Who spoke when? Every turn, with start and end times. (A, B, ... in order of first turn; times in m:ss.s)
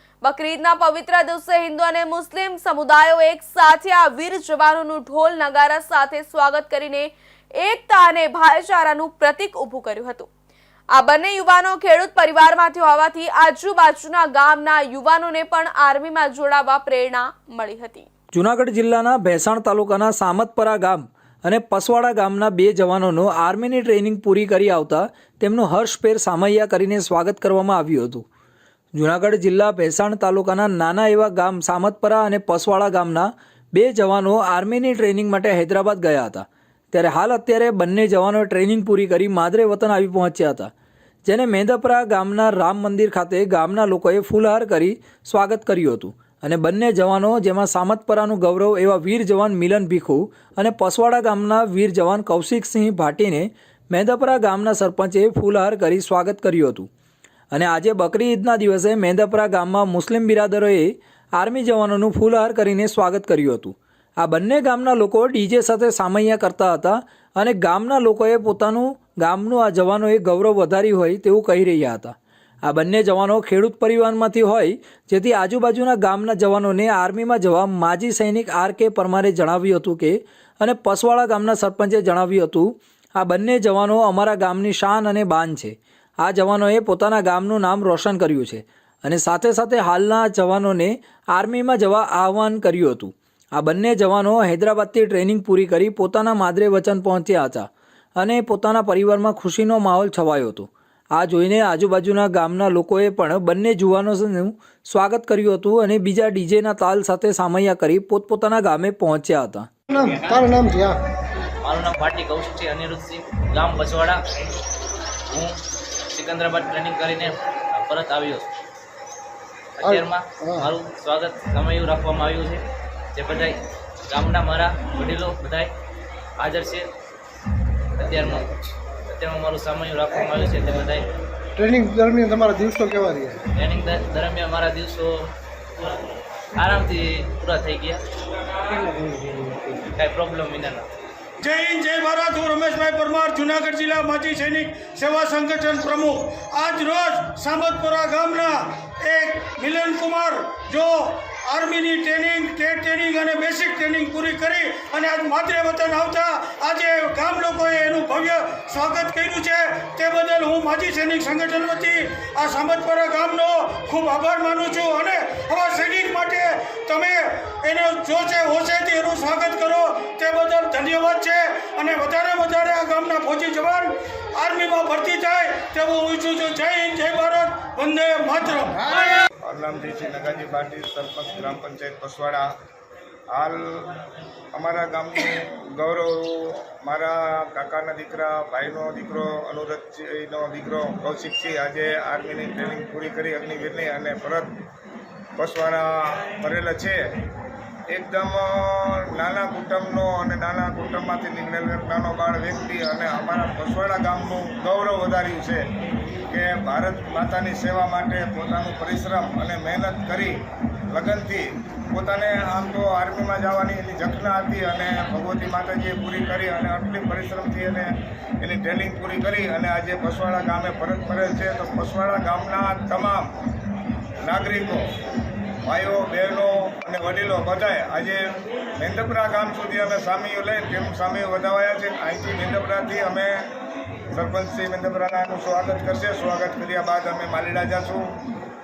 0:00.2-0:10.3 A
0:10.9-0:18.1 A
0:18.3-0:28.2 B
0:29.0-0:40.7 B
0:41.2-0:56.9 B
0:57.5-1:49.7 B
1:49.9-1:51.0 C
1:51.6-1:54.2 D
1:56.1-1:58.5 D
1:59.8-2:02.6 D
1:59.8-2:00.7 C
2:03.1-2:05.7 D
2:06.4-2:06.9 D
2:08.0-2:08.5 D
2:09.1-2:11.1 D
2:11.6-2:13.4 C
2:13.6-2:15.3 D
2:16.6-2:18.0 D
2:18.7-2:19.8 C
2:19.9-2:20.9 D
2:21.4-2:59.2 E
2:59.4-3:02.5 F
3:03.3-3:04.0 F
3:04.5-3:14.5 F
3:15.4-3:17.0 F
3:17.9-3:25.6 F
3:26.3-3:30.3 F
3:30.9-3:43.3 F
3:44.2-3:44.8 F
3:45.7-3:48.2 F
3:48.8-3:53.4 F
3:54.2-3:58.0 F